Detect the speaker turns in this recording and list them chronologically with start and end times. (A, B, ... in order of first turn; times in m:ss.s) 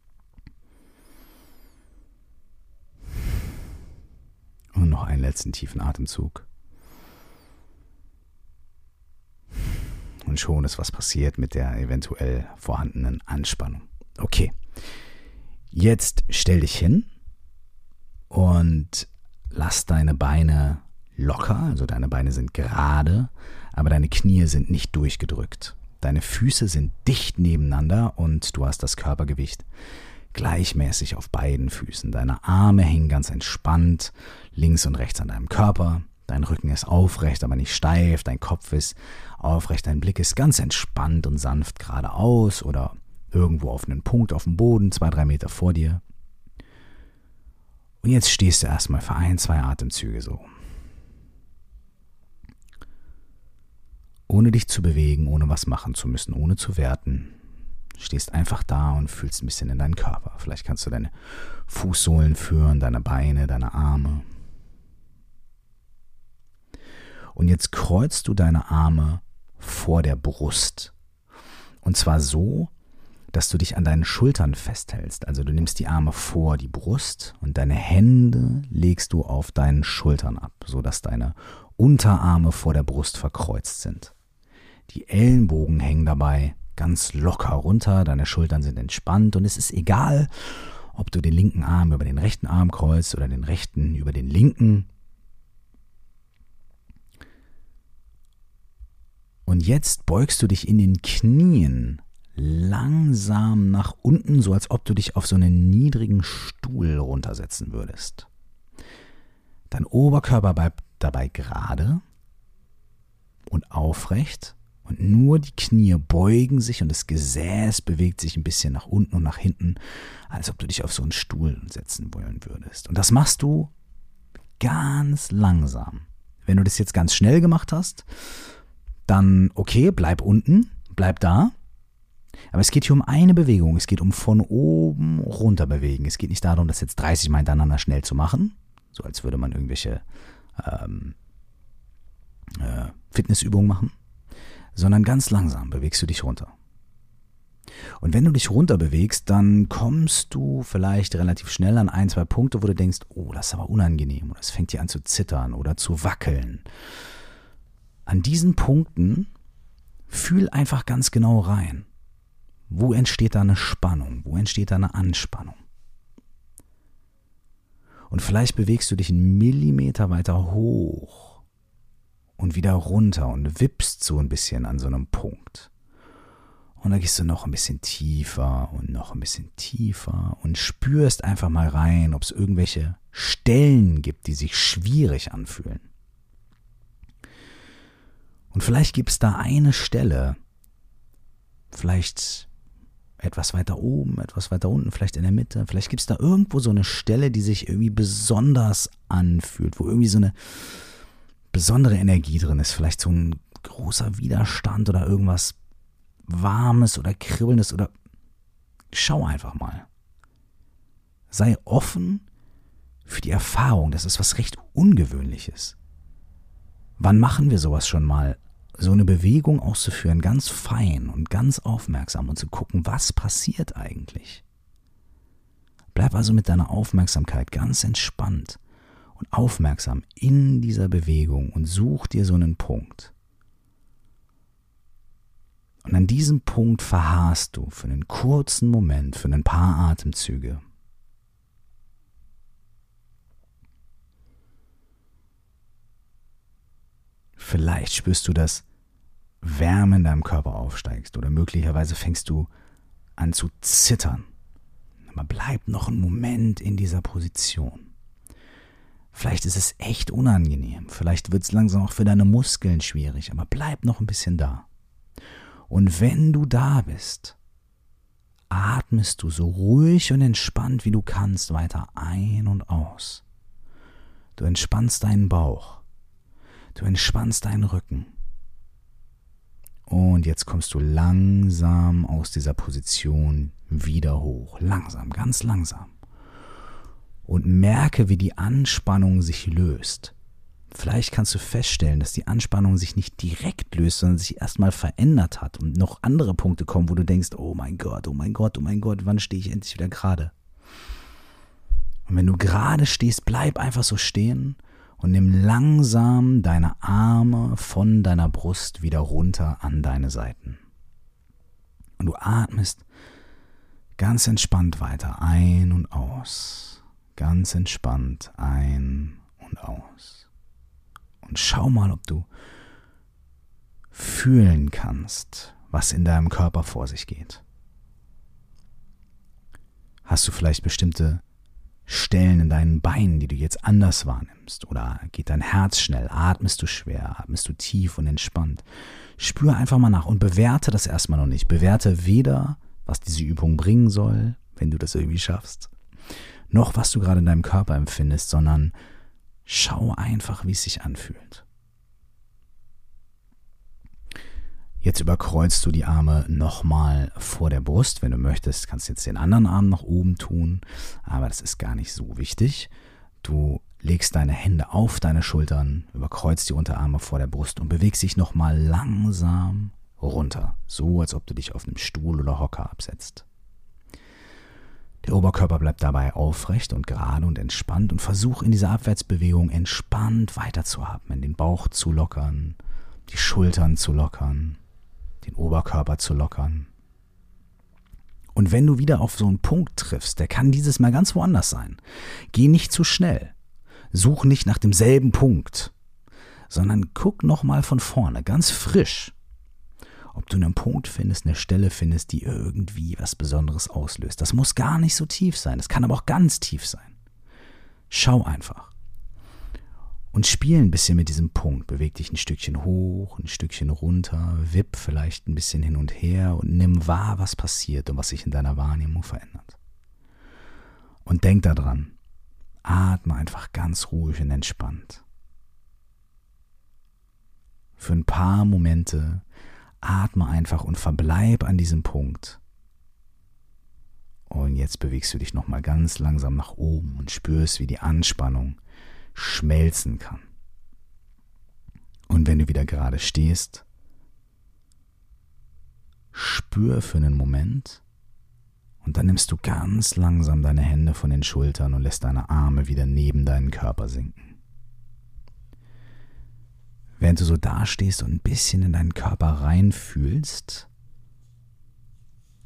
0:04.7-0:06.4 A
0:10.2-0:14.5 A
0:15.7-0:17.1 A
0:18.3-0:29.6 A
0:30.3-0:46.0 A
0:48.0-0:50.4 A
0:54.3-0:57.4 A
0:58.0-1:01.1 A
1:01.7-1:04.2 A
1:07.3-1:10.9 A
1:11.8-1:12.7 A
1:13.3-1:24.1 A
1:24.9-1:34.9 A
1:39.5-1:48.3 A
1:49.7-1:52.0 A
1:53.5-1:59.8 A
2:00.3-2:03.7 A
2:04.6-2:08.0 A
2:09.1-2:11.5 A
2:12.5-2:20.0 A
2:20.6-2:21.1 A
2:22.6-2:23.9 A
2:24.7-2:26.5 A
2:28.0-2:36.6 A
2:38.0-2:39.3 A
2:40.1-2:41.9 A
2:42.7-2:45.6 A
2:48.1-2:51.4 A
2:52.4-2:55.7 A
2:56.8-3:05.9 A
3:08.5-3:10.4 A
3:11.7-3:12.5 A
3:13.2-3:20.3 A
3:21.5-3:25.6 A
3:26.3-3:27.9 A
3:28.9-3:29.8 A
3:31.3-3:32.2 A
3:33.0-3:35.8 A
3:37.0-3:44.4 A
3:45.9-3:48.6 A
3:49.2-3:53.1 A
3:55.8-4:00.6 A
4:07.4-4:08.6 A
4:09.4-4:12.5 A
4:13.2-4:14.3 A
4:15.1-4:17.9 A
4:19.1-4:24.6 A
4:25.7-4:27.4 A
4:28.5-4:33.2 A
4:34.4-4:35.8 A
4:36.7-4:38.1 A
4:39.9-4:45.9 A
4:47.2-4:50.1 A
4:50.7-5:00.3 A
5:02.1-5:10.6 A
5:12.0-5:12.8 A
5:14.0-5:20.3 A
5:21.2-5:22.3 A
5:23.9-5:27.4 A
5:30.0-5:31.2 A
5:31.9-5:38.6 A
5:39.2-5:45.7 A
5:46.5-5:48.7 A
5:49.4-5:51.4 A
5:54.8-6:02.7 A
6:03.2-6:13.2 A
6:15.0-6:24.6 A
6:25.2-6:26.7 A
6:28.3-6:31.8 A
6:32.3-6:33.3 A
6:33.9-6:35.7 A
6:36.5-6:39.1 A
6:40.1-6:46.9 A
6:47.9-6:48.7 A
6:50.1-6:59.6 A
7:01.0-7:01.9 A
7:02.6-7:05.0 A
7:07.8-7:09.2 A
7:09.8-7:12.4 A
7:14.3-7:18.6 A
7:19.1-7:20.2 A
7:22.1-7:23.6 A
7:26.1-7:27.8 A
7:28.8-7:34.2 A
7:37.0-7:40.7 A